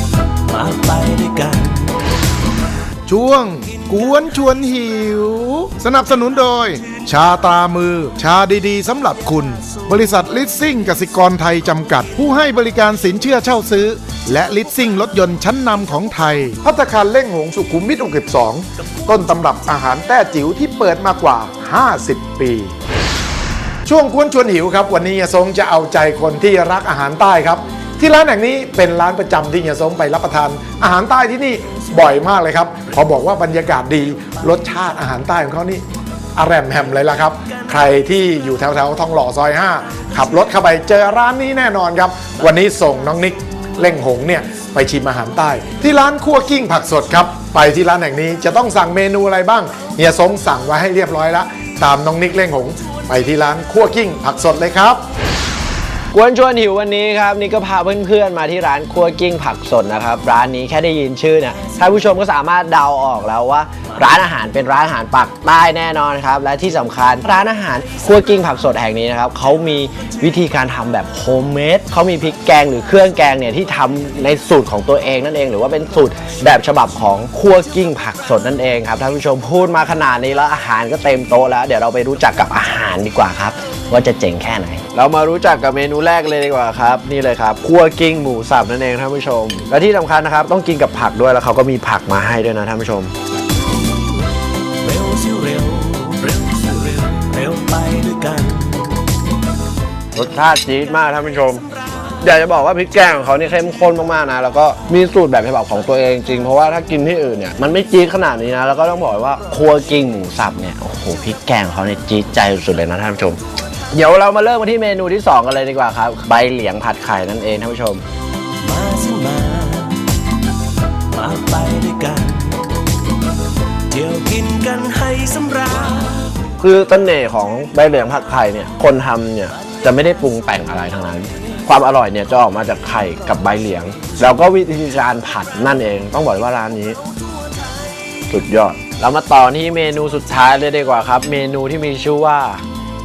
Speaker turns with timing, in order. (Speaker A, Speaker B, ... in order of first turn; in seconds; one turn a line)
Speaker A: 0.5-2.0
Speaker B: 3.1-22.7
Speaker B: 23.9-35.8
Speaker B: 36.4-55.0
Speaker C: 56.1-93.1
Speaker A: 94.8-99.0
Speaker C: 100.2-101.6
Speaker C: 102.2-113.4
Speaker C: 113.9-118.0
Speaker A: 118.6-120.0
Speaker A: 121.1-122.8
Speaker A: 123.9-126.3
Speaker C: 126.6-137.0
Speaker C: 138.3-142.6